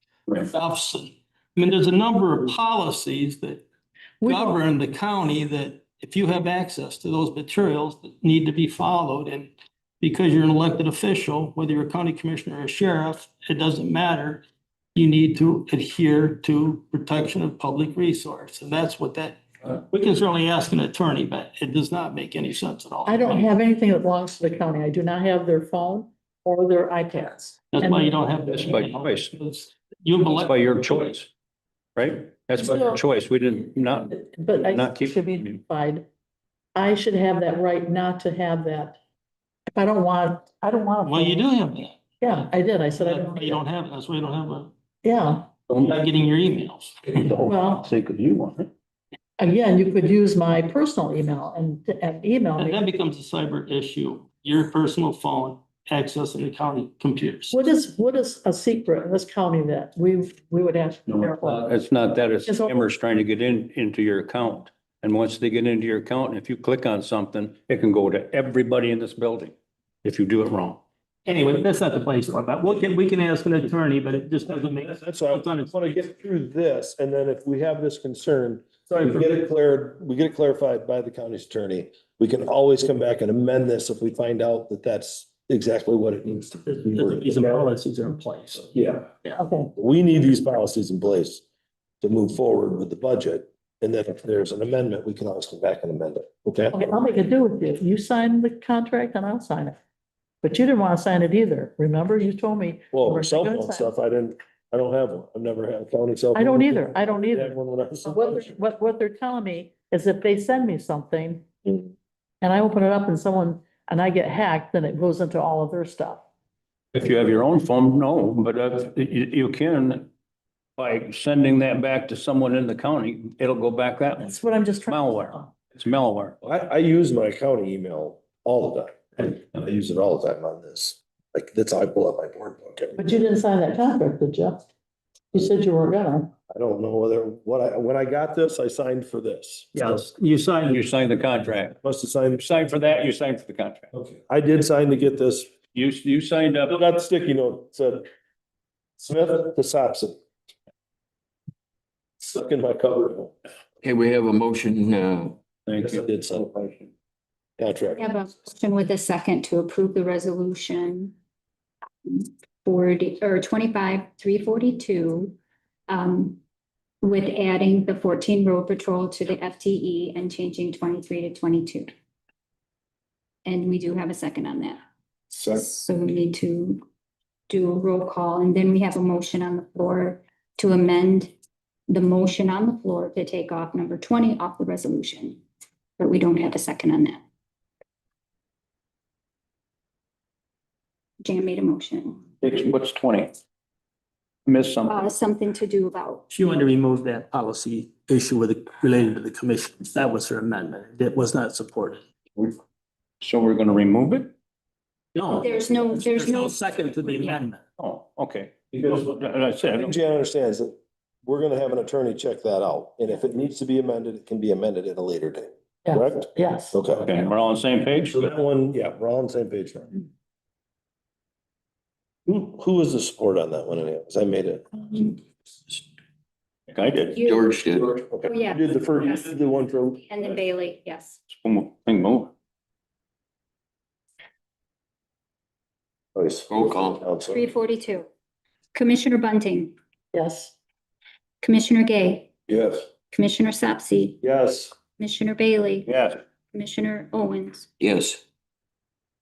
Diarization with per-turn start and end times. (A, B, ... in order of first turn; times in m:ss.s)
0:00.4-0:03.6 A
0:04.2-0:04.6 B
0:04.2-0:23.5 A
0:23.1-0:28.1 B
0:27.7-0:31.1 A
0:28.5-0:29.4 C
0:30.3-0:31.3 C
0:32.0-0:35.6 C
0:32.6-0:33.0 B
0:34.1-0:36.1 B
0:36.8-0:39.0 B
0:39.7-0:41.5 B
0:41.0-0:42.0 A
0:42.2-0:43.6 B
0:42.9-0:44.7 A
0:45.0-0:45.5 B
0:45.7-0:46.0 C
0:45.8-0:47.2 A
0:47.1-0:48.7 C
0:47.4-0:47.9 B
0:49.4-0:52.8 B
0:52.6-0:57.6 A
0:57.5-1:01.6 B
1:01.1-1:10.8 C
1:02.5-1:02.8 B
1:11.3-1:15.8 A
1:15.0-1:27.7 D
1:26.8-1:28.7 A
1:28.7-1:29.1 D
1:29.3-1:29.7 B
1:29.8-1:31.4 D
1:32.0-1:36.8 D
1:36.7-1:39.8 B
1:40.4-1:43.9 B
1:42.9-1:48.6 D
1:46.3-1:51.5 B
1:52.4-1:56.2 B
1:56.9-2:00.1 C
2:00.8-2:06.4 C
2:04.2-2:05.5 B
2:06.4-2:13.2 D
2:13.0-2:14.6 B
2:15.3-2:16.3 B
2:16.5-2:19.8 D
2:19.8-2:20.8 A
2:20.6-2:21.8 C
2:21.8-2:22.5 D
2:22.4-2:23.9 C
2:24.0-2:25.5 D
2:25.7-2:26.8 C
2:26.7-2:28.1 D
2:29.0-2:30.2 D
2:32.2-2:33.4 D
2:33.8-2:35.4 E
2:35.7-2:36.8 C
2:35.8-2:36.7 D
2:37.6-2:38.1 D
2:38.0-2:41.2 F
2:42.0-2:45.4 F
2:45.9-2:46.4 F
2:47.0-2:51.9 F
2:53.5-2:54.8 F
2:55.4-2:56.8 F
2:57.5-3:01.3 F
3:01.9-3:05.4 F
3:06.0-3:07.2 F
3:11.2-3:12.3 F
3:12.4-3:13.4 C
3:14.5-3:15.1 C
3:14.9-3:16.2 F
3:16.3-3:22.0 A
3:23.2-3:24.3 C
3:25.2-3:27.6 A
3:25.3-3:27.4 F
3:27.8-3:29.9 C
3:29.7-3:37.2 D
3:35.8-3:36.8 B
3:36.9-3:38.2 C
3:38.1-3:40.0 D
3:42.3-3:45.2 D
3:46.7-3:47.2 C
3:47.2-3:47.5 F
3:47.2-3:48.0 E
3:48.0-3:50.0 D
3:48.2-3:51.2 F
3:51.3-3:52.3 C
3:56.2-3:57.4 D
3:56.5-3:57.0 E
3:57.3-3:58.1 F
3:58.7-3:59.8 F
4:00.1-4:00.6 B
4:01.4-4:02.3 F
4:02.5-4:02.8 D
4:03.1-4:04.2 F
4:04.2-4:04.7 D
4:05.0-4:05.9 F
4:05.9-4:06.2 C
4:06.5-4:07.7 F
4:07.8-4:08.2 E